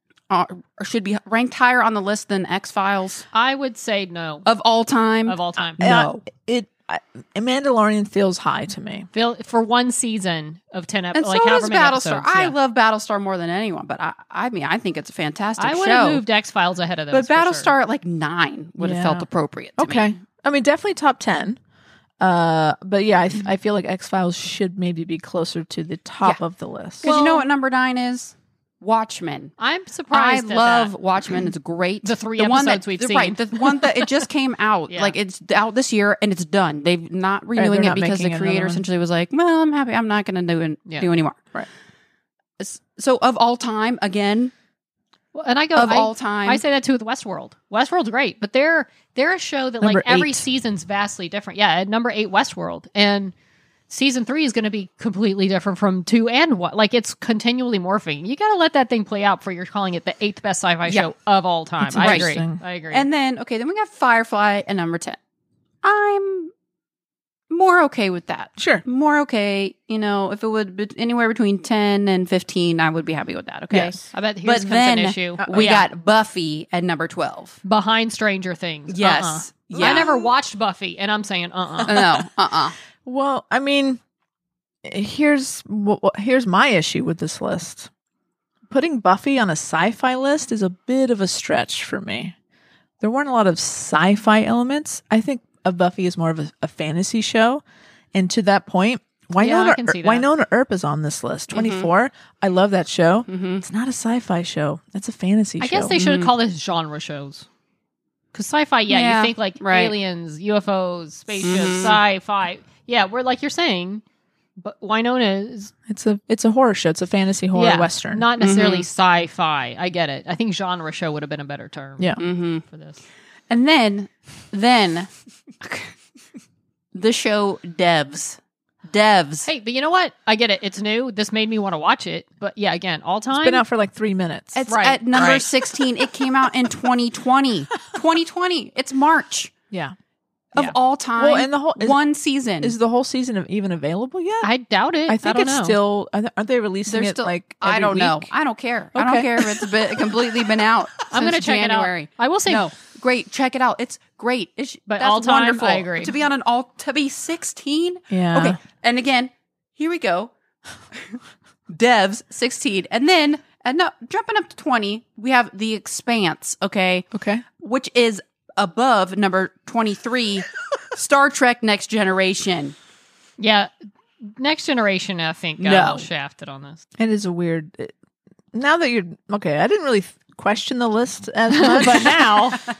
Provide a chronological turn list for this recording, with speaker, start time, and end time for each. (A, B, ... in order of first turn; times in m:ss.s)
0:00.3-0:03.2 A
0:03.3-0:04.4 B
0:04.4-0:06.2 A
0:05.2-0:05.9 B
0:05.8-0:09.1 C
0:09.1-0:12.5 B
0:11.1-0:16.2 A
0:15.6-0:17.7 B
0:17.1-0:20.1 A
0:18.8-0:19.2 C
0:19.8-0:21.6 C
0:22.2-0:27.1 C
0:27.0-0:29.5 A
0:27.0-0:27.5 B
0:29.6-0:30.9 B
0:30.1-0:41.7 A
0:32.0-0:33.9 B
0:34.9-0:35.1 B
0:37.6-0:38.8 C
0:42.6-0:44.5 A
0:45.3-0:53.3 B
0:45.7-0:46.6 A
0:49.8-0:50.4 C
0:53.9-1:03.0 B
1:01.8-1:02.6 C
1:02.0-1:02.3 A
1:02.9-1:05.2 A
1:05.8-1:06.5 A
1:07.5-1:17.6 A
1:08.6-1:08.8 C
1:13.7-1:14.0 C
1:14.1-1:15.8 B
1:17.6-1:22.0 B
1:18.9-1:20.3 A
1:19.7-1:20.0 C
1:21.8-1:22.8 A
1:23.0-1:24.0 C
1:24.8-1:27.9 C
1:28.7-1:32.3 C
1:33.0-1:37.6 C
1:38.1-1:45.9 C
1:39.4-1:40.3 B
1:41.5-1:41.9 A
1:43.3-1:43.6 A
1:45.6-1:47.4 B
1:45.9-1:46.3 A
1:48.3-1:54.0 B
1:48.9-1:50.0 A
1:51.4-1:52.0 A
1:54.6-1:55.7 B
1:55.9-1:58.2 C
1:57.5-2:03.0 B
1:58.4-1:58.9 A
2:02.2-2:02.6 A
2:03.5-2:05.1 A
2:05.6-2:05.9 A
2:06.9-2:09.5 A
2:09.4-2:13.6 B
2:13.3-2:14.6 C
2:14.5-2:19.5 A
2:14.7-2:15.5 B
2:20.5-2:22.8 A
2:20.6-2:22.0 C
2:22.6-2:24.5 C
2:24.4-2:25.8 B
2:25.1-2:28.3 C
2:26.9-2:40.3 A
2:28.9-2:30.2 C
2:31.1-2:32.7 B
2:34.9-2:36.1 B
2:38.1-2:38.6 C
2:41.7-2:52.8 A
2:47.1-2:47.4 C
2:53.4-2:53.7 B
2:54.2-2:56.8 B
2:55.6-2:56.1 A
2:57.0-2:57.9 C
2:58.5-3:02.4 C
3:01.5-3:02.6 B